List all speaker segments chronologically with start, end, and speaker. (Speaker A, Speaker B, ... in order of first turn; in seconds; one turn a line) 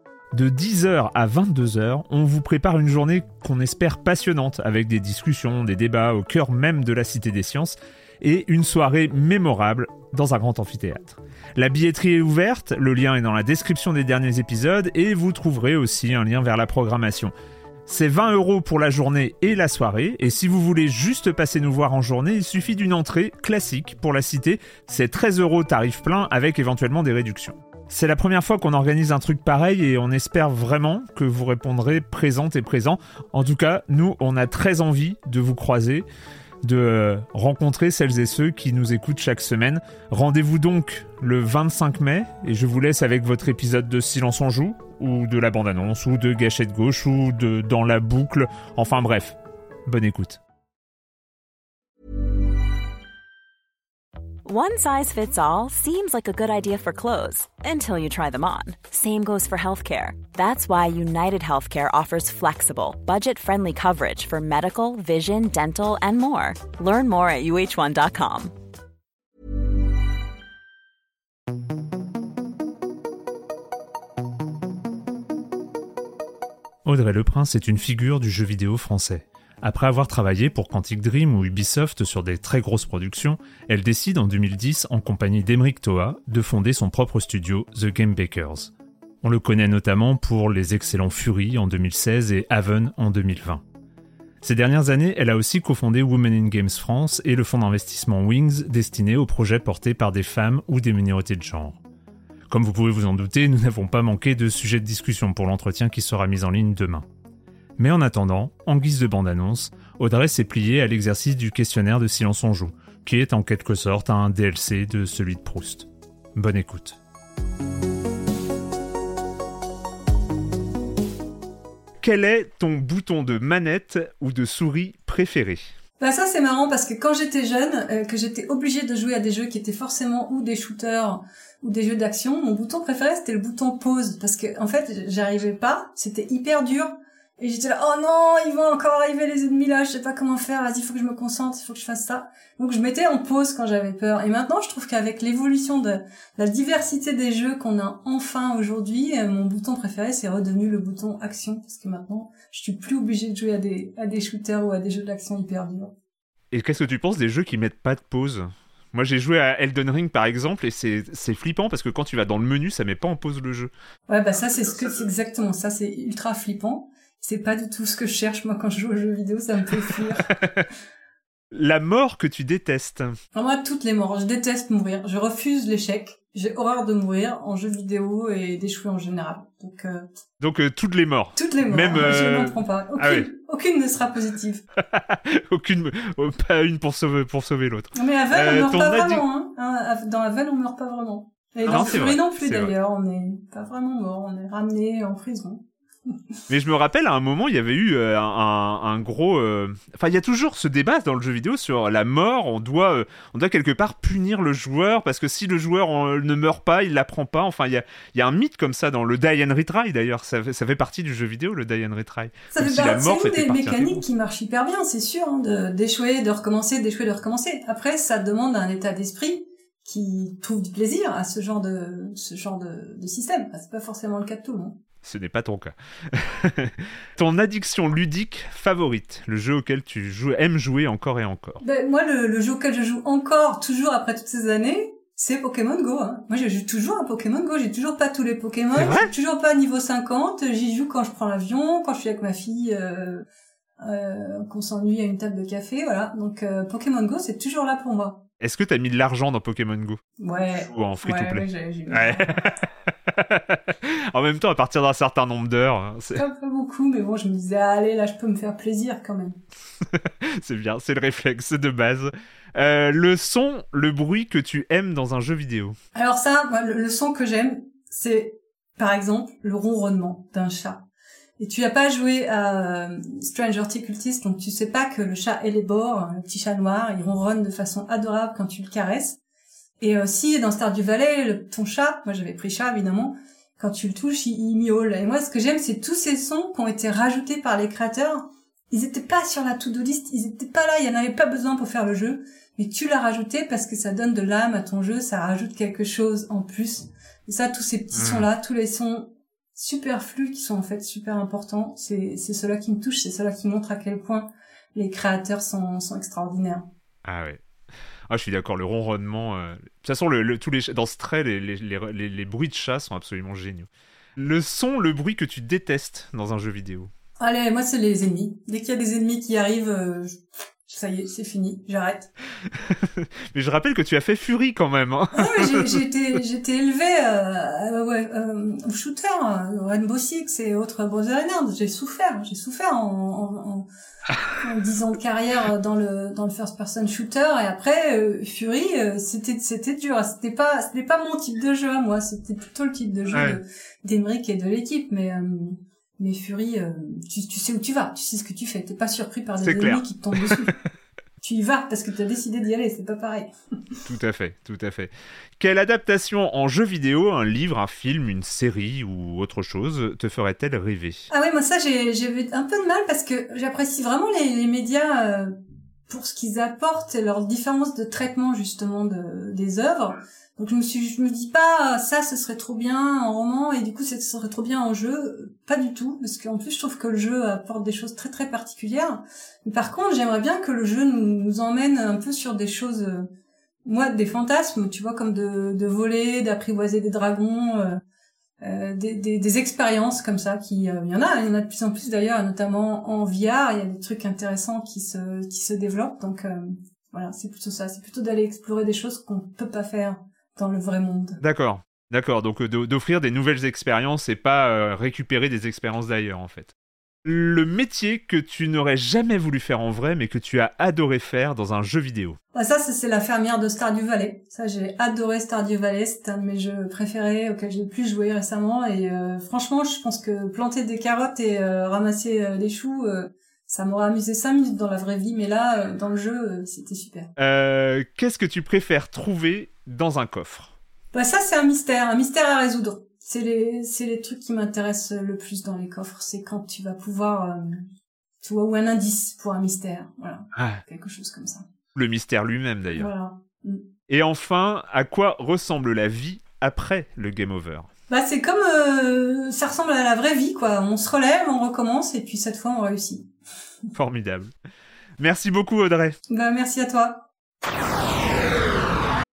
Speaker A: 0.3-17.3
Speaker A: 17.9-36.0
Speaker A: 36.6-50.4
Speaker B: 54.4-68.5
Speaker A: 76.8-88.7
Speaker A: 89.2-93.6
Speaker A: 94.4-101.8
Speaker A: 102.5-107.0
Speaker A: 107.8-117.0
Speaker A: 122.0-125.6
Speaker C: 126.0-155.9
Speaker A: 156.5-163.7
Speaker C: 164.1-170.3
Speaker A: 170.4-170.7
Speaker A: 171.5-173.1
Speaker C: 173.3-180.1
Speaker A: 180.4-183.3
Speaker C: 181.3-184.6
Speaker A: 184.9-189.2
Speaker C: 187.9-195.6
Speaker A: 191.7-192.7
Speaker A: 196.5-214.1
Speaker C: 212.5-224.8
Speaker A: 225.0-231.6
Speaker C: 231.6-243.2
Speaker A: 238.7-239.1
Speaker C: 243.8-248.2
Speaker A: 248.4-250.0
Speaker C: 250.2-252.4
Speaker A: 250.5-256.2
Speaker C: 256.1-259.4
Speaker A: 260.0-265.7
Speaker C: 265.9-270.8
Speaker C: 271.4-279.2
Speaker C: 279.8-306.7
Speaker A: 297.9-298.3
Speaker A: 307.0-307.4
Speaker A: 308.1-316.9
Speaker C: 317.2-322.1
Speaker A: 322.7-325.8
Speaker C: 325.1-333.7
Speaker C: 334.4-350.5
Speaker A: 343.1-343.4
Speaker A: 349.4-350.5
Speaker C: 351.2-353.3
Speaker A: 353.9-361.1
Speaker C: 361.1-365.3
Speaker C: 365.9-383.1
Speaker C: 383.6-387.8
Speaker C: 388.4-401.2
Speaker A: 401.2-406.5
Speaker A: 407.0-412.2
Speaker C: 412.3-427.1
Speaker A: 427.2-430.5
Speaker C: 430.9-437.6
Speaker C: 438.2-441.4
Speaker A: 440.4-440.6
Speaker A: 441.7-442.9
Speaker C: 442.7-443.6
Speaker A: 443.9-447.7
Speaker C: 447.9-453.1
Speaker A: 453.7-454.3
Speaker A: 455.0-455.9
Speaker C: 456.1-457.1